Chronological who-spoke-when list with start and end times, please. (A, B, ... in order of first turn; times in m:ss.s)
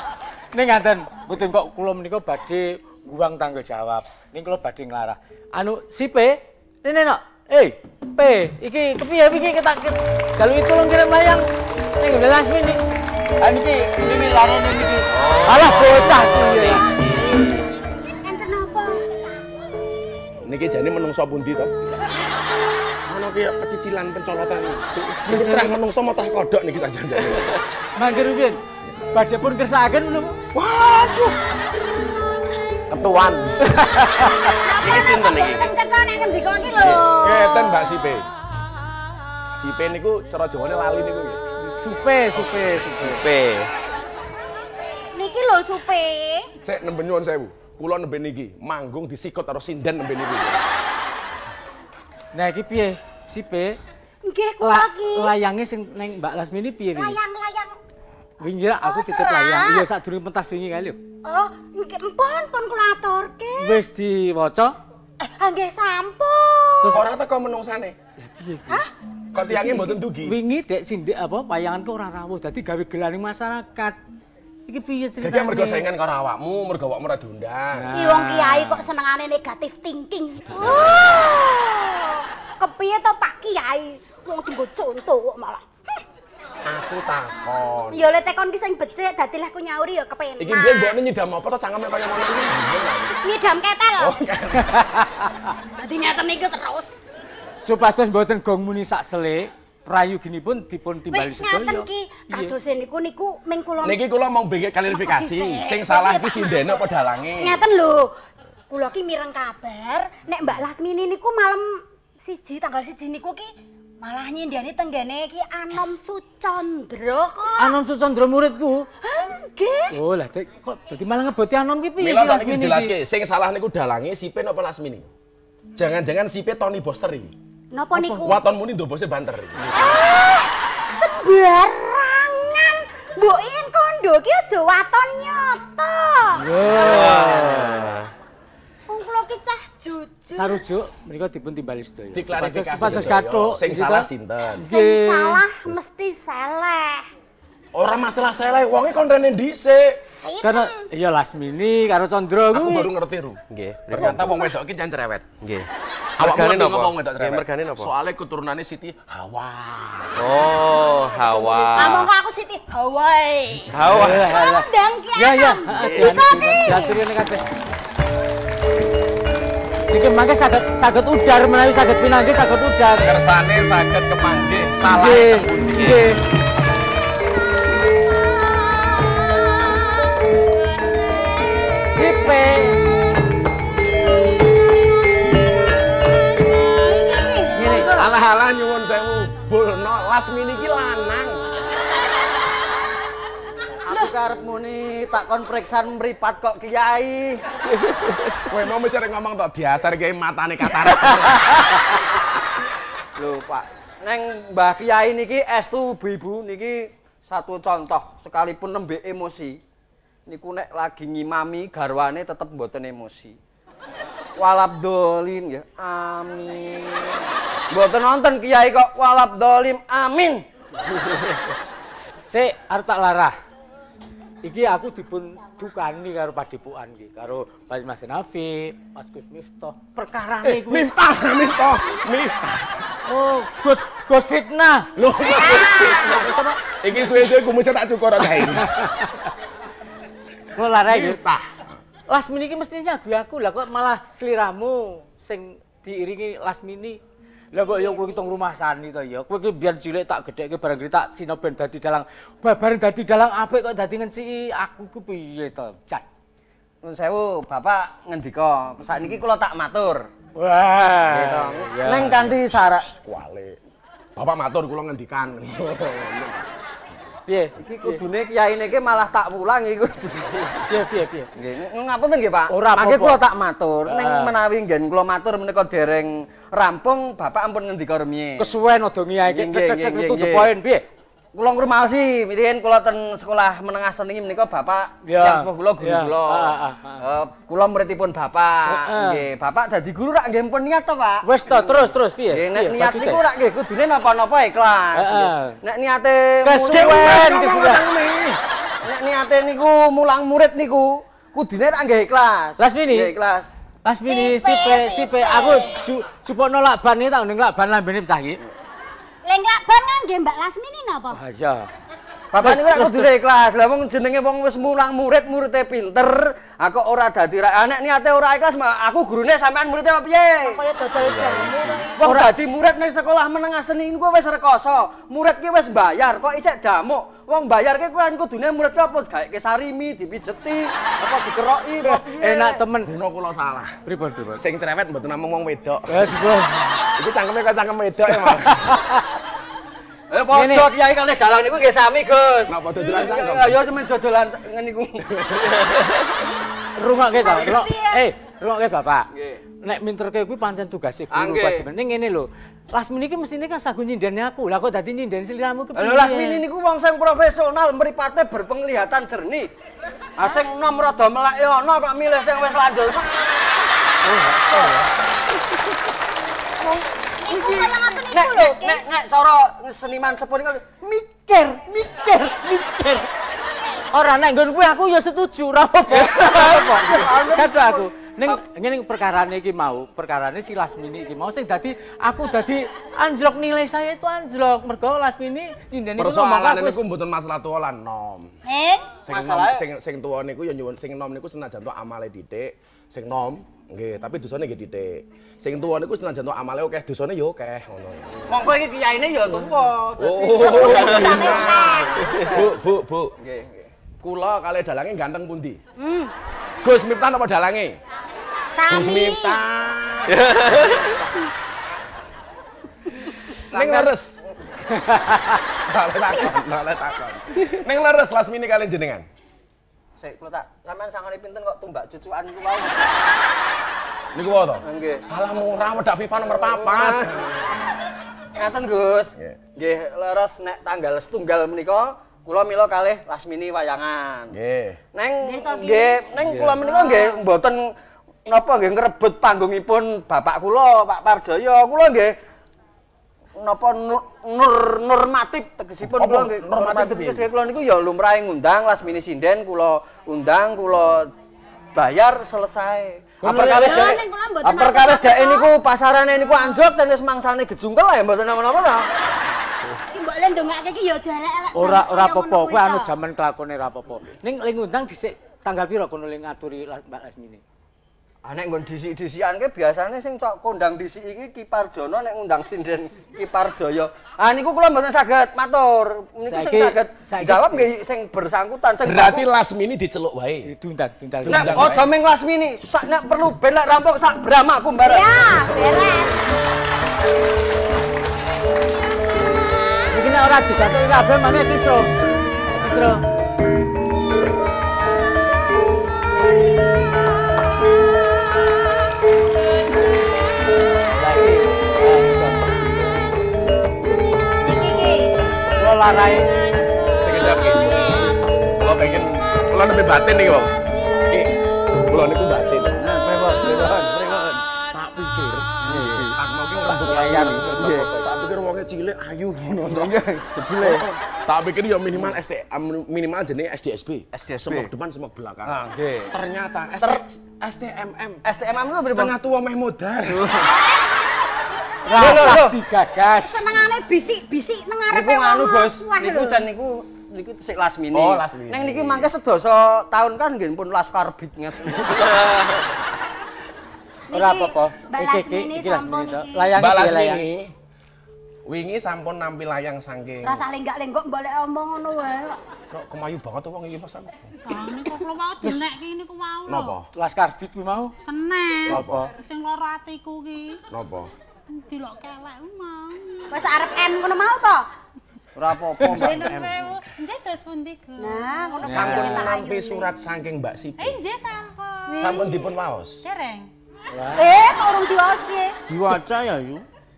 0:00.5-0:11.4 A
0:12.0-0:12.8 A
0:13.4-0:16.8 A
0:15.1-0:17.6 B
0:18.2-0:19.1 C
0:20.4-0:22.1 D
0:23.1-0:27.6 D
0:25.2-0:25.7 A
0:28.0-0:28.6 A
0:29.1-0:30.4 A
0:30.5-0:31.4 D
0:32.9-0:33.6 D
0:33.8-0:34.5 A
0:34.5-0:37.8 C
0:34.8-0:35.7 B
0:36.7-0:38.3 D
0:39.5-0:41.4 D
0:41.6-0:43.2 A
0:42.9-0:43.7 B
0:45.1-0:46.5 C
0:46.6-0:50.7 D
0:52.3-0:53.8 A
0:54.2-0:55.4 C
0:54.6-0:57.2 A
0:56.9-0:57.8 C
0:58.4-1:01.0 A
0:58.8-0:59.9 C
1:01.2-1:03.8 C
1:03.6-1:04.8 A
1:05.2-1:07.0 C
1:06.9-1:08.0 D
1:08.2-1:08.8 A
1:09.3-1:10.4 D
1:09.4-1:14.0 A
1:14.7-1:15.9 A
1:15.2-1:17.8 D
1:17.8-1:18.9 A
1:17.9-1:26.0 C
1:26.6-1:28.1 D
1:27.9-1:31.0 C
1:30.4-1:33.2 D
1:33.1-1:34.2 C
1:34.0-1:34.8 D
1:34.7-1:35.4 A
1:35.8-1:36.9 C
1:37.6-1:42.6 A
1:41.1-1:44.0 C
1:43.8-1:47.6 D
1:44.9-1:46.8 C
1:47.4-1:48.1 C
1:48.7-1:57.8 C
1:57.6-1:58.9 A
1:59.0-2:00.0 C
1:59.9-2:02.9 A
2:02.0-2:05.1 D
2:05.8-2:07.3 D
2:07.7-2:08.4 C
2:07.9-2:08.4 A
2:08.2-2:09.8 D
2:09.7-2:17.0 C
2:16.3-2:17.8 A
2:16.8-2:18.1 B
2:18.9-2:20.6 C
2:20.3-2:25.5 A
2:22.1-2:24.7 D
2:24.6-2:27.1 C
2:27.7-2:30.0 D
2:30.0-2:30.9 C
2:30.4-2:32.9 A
2:32.5-2:35.2 D
2:33.5-2:34.4 B
2:34.1-2:34.6 C
2:35.4-2:35.7 B
2:36.2-2:37.9 B
2:36.2-2:40.2 D
2:40.2-2:42.1 B
2:41.3-2:47.0 C
2:43.7-2:44.3 B
2:43.9-2:47.7 A
2:45.8-2:46.3 B
2:49.9-2:53.2 A
2:53.0-2:55.9 D
2:54.8-2:56.2 A
2:55.7-2:56.0 B
3:01.9-3:02.8 A
3:06.8-3:07.6 C
3:07.5-3:08.0 A
3:07.6-3:11.4 D
3:13.8-3:17.4 E
3:18.3-3:21.6 D
3:23.2-3:29.6 E
3:30.3-3:33.4 E
3:34.4-3:40.4 E
3:42.3-3:43.3 A
3:44.4-3:50.9 A
3:50.4-3:52.9 D
3:53.0-3:54.9 A
3:55.0-3:58.8 D
3:55.5-3:55.8 C
3:55.7-3:57.3 A
3:58.4-3:59.1 A
4:00.6-4:01.2 A
4:00.9-4:01.4 D
4:02.1-4:07.0 A
4:07.5-4:16.0 A
4:16.8-4:20.1 E
4:20.4-4:22.3 A
4:21.1-4:22.9 E
4:22.8-4:23.6 D
4:24.2-4:26.5 D
4:27.3-4:28.0 A
4:27.6-4:30.7 E
4:30.7-4:31.3 A
4:31.4-4:38.5 E
4:32.5-4:33.2 A
4:33.8-4:34.4 A
4:38.4-4:40.8 A
4:39.3-4:40.5 E
4:41.3-4:57.4 E
4:45.0-4:47.0 A
4:48.7-4:49.2 A
4:51.2-4:53.2 A
4:54.9-4:55.6 A
4:56.4-4:58.1 A
4:56.7-4:58.4 D
4:58.8-5:03.5 E
5:02.6-5:03.1 A
5:03.8-5:08.4 A
5:04.0-5:05.7 C
5:09.2-5:11.2 C
5:11.1-5:11.7 A
5:12.3-5:20.6 E
5:12.4-5:13.1 A
5:20.4-5:22.1 C
5:21.0-5:21.9 B
5:21.9-5:32.6 E
5:22.0-5:22.3 A
5:31.8-5:32.9 A
5:32.8-5:33.8 D
5:33.8-5:34.4 A
5:34.4-5:36.2 D
5:35.9-5:36.8 A
5:36.9-5:38.7 D
5:38.3-5:38.9 A
5:40.1-5:45.8 E
5:40.3-5:40.7 A
5:42.5-5:43.6 D
5:45.2-5:45.5 D
5:46.8-5:49.1 A
5:47.1-5:48.0 C
5:49.1-5:49.4 E
5:49.6-5:56.4 A
5:51.1-5:51.7 E
5:55.8-5:59.5 E
6:00.2-6:03.6 E
6:04.0-6:04.9 A
6:06.6-6:13.1 E
6:07.2-6:08.8 C
6:13.9-6:26.8 A
6:15.9-6:18.4 E
6:26.0-6:28.3 D
6:28.4-6:29.0 C
6:29.0-6:38.3 D
6:29.0-6:29.6 E
6:38.3-6:42.5 E
6:40.0-6:43.1 D
6:40.5-6:42.0 C
6:40.8-6:41.2 B
6:43.2-6:43.7 E
6:44.0-6:45.6 D
6:45.8-6:46.1 C
6:46.6-6:47.8 D
6:48.5-6:49.4 C
6:48.7-6:50.5 D
6:50.1-6:51.0 B
6:53.5-6:54.2 D
6:53.5-6:54.0 E
6:54.7-6:55.3 A
6:55.6-6:59.1 D
7:00.0-7:02.9 E
7:04.1-7:07.4 D
7:04.6-7:05.0 E
7:06.4-7:07.2 E
7:08.4-7:14.3 E
7:14.3-7:14.8 D
7:14.9-7:17.7 E
7:15.2-7:17.2 C
7:16.2-7:16.6 A
7:18.3-7:22.1 E
7:23.4-7:31.1 E
7:25.8-7:27.2 D
7:31.7-7:38.9 E
7:33.2-7:34.0 A
7:33.5-7:35.5 C
7:36.2-7:36.7 C
7:39.8-7:42.9 C
7:41.5-7:47.4 A
7:48.2-7:59.3 E
7:56.2-7:57.7 A
7:58.8-8:00.5 D
8:00.4-8:01.8 A
8:01.2-8:01.8 D
8:01.3-8:05.4 E
8:04.8-8:06.4 C
8:09.9-8:11.9 A
8:12.5-8:13.0 A
8:20.9-8:22.6 A
8:24.4-8:25.2 C
8:25.6-8:26.4 A
8:26.9-8:27.9 D
8:27.2-8:28.1 C
8:28.6-8:30.5 D
8:31.1-8:31.4 D
8:31.9-8:32.8 D
8:32.8-8:34.4 E
8:34.7-8:45.6 D
8:35.6-8:36.1 A
8:35.6-8:36.0 E
8:36.7-8:37.4 A
8:37.6-8:37.9 E
8:39.7-8:40.9 E
8:44.1-8:44.7 E
8:45.4-8:46.1 E
8:46.1-8:48.2 D
8:48.2-8:49.1 E
8:48.9-8:50.3 D
8:50.1-8:50.5 E
8:51.9-8:52.2 C
8:51.9-8:53.5 A
8:51.9-8:52.6 E
8:53.1-8:56.5 C
8:54.9-9:02.7 E
8:57.9-8:59.1 D
9:04.1-9:06.6 C
9:04.1-9:07.3 A
9:06.6-9:07.5 D
9:08.4-9:10.4 D
9:10.2-9:12.4 C
9:12.7-9:14.1 D
9:14.4-9:16.8 F
9:15.4-9:15.7 A
9:16.4-9:16.9 D
9:16.9-9:17.9 A
9:18.0-9:20.6 F
9:18.6-9:19.0 D
9:18.6-9:19.1 A
9:20.7-9:21.1 D
9:21.5-9:23.4 F
9:23.3-9:24.7 C
9:25.4-9:26.6 E
9:25.8-9:26.3 A
9:25.9-9:28.7 F
9:28.0-9:29.9 C
9:28.6-9:31.0 D
9:28.6-9:29.3 A
9:30.8-9:32.3 F
9:31.9-9:32.5 C
9:32.0-9:33.0 D
9:33.0-9:33.5 F
9:33.9-9:34.3 A
9:34.1-9:36.6 C